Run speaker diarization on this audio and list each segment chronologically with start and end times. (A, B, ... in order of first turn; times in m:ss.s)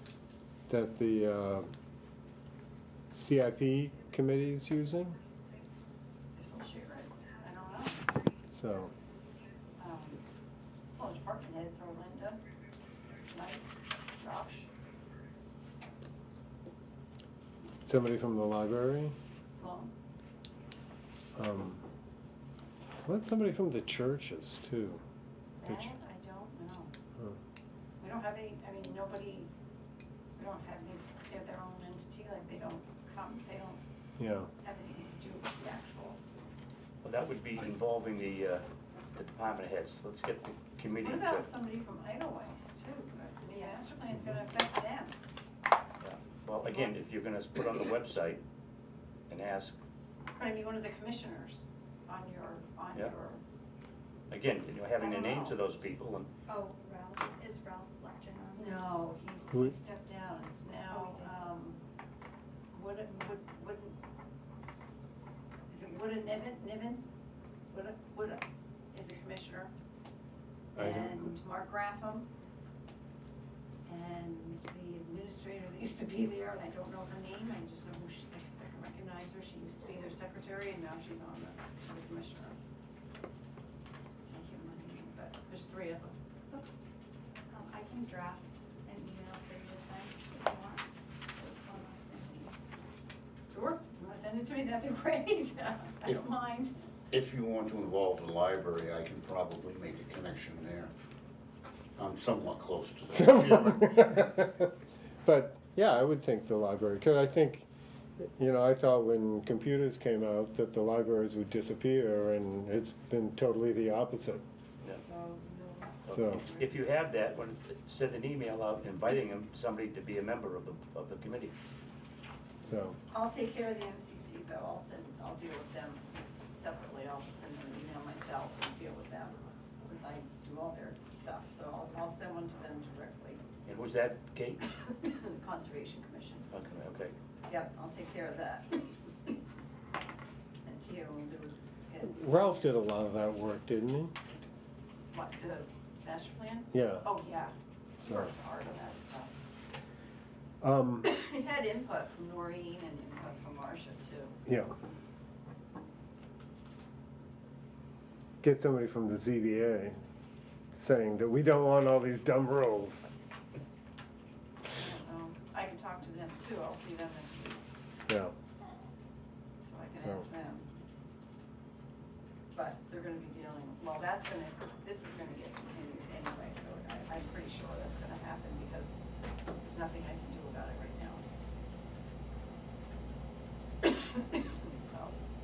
0:00.7-0:01.7 A
0:03.1-0:05.2 A
0:06.3-0:08.0 B
0:08.5-0:08.9 A
0:09.8-0:10.2 B
0:11.0-0:12.4 B
0:13.2-0:14.7 B
0:17.8-0:19.1 A
0:19.5-0:19.9 B
0:21.4-0:21.8 A
0:23.0-0:25.0 A
0:25.6-0:26.9 B
0:25.6-0:25.9 A
0:28.0-0:29.5 B
0:30.4-0:33.8 B
0:34.2-0:34.5 A
0:34.6-0:36.2 B
0:37.0-0:38.6 C
0:39.1-0:41.5 C
0:41.0-0:45.2 B
0:46.0-0:48.4 C
0:49.3-0:49.8 C
0:50.3-0:53.4 B
0:54.3-0:56.3 C
0:55.0-0:55.6 B
0:56.5-0:59.0 D
0:58.6-1:01.8 B
1:00.9-1:01.3 D
1:02.7-1:04.0 B
1:05.7-1:07.0 B
1:07.7-1:09.7 B
1:10.8-1:11.2 A
1:10.8-1:12.3 B
1:13.9-1:22.6 B
1:24.3-1:26.1 B
1:27.5-1:30.8 D
1:31.4-1:32.6 D
1:33.5-1:36.7 B
1:37.1-1:40.9 E
1:42.0-1:44.3 E
1:43.1-1:47.7 A
1:48.2-1:54.4 A
1:55.0-1:56.7 B
1:56.0-2:01.5 C
1:56.1-1:56.4 A
2:02.6-2:03.0 A
2:03.1-2:13.4 B
2:13.6-2:14.6 C
2:14.7-2:16.5 B
2:16.5-2:17.1 C
2:17.5-2:19.3 B
2:20.6-2:22.7 B
2:22.0-2:24.2 A
2:25.1-2:29.3 B
2:26.7-2:27.1 A
2:28.0-2:28.3 A
2:30.6-2:31.1 A
2:31.0-2:34.4 B
2:34.4-2:34.7 A
2:38.4-2:40.0 A
2:40.7-2:43.1 A
2:44.7-2:47.6 B
2:48.1-2:48.3 A
2:49.6-2:50.7 B
2:52.5-2:58.9 B
2:59.6-3:01.2 B
3:03.8-3:05.2 B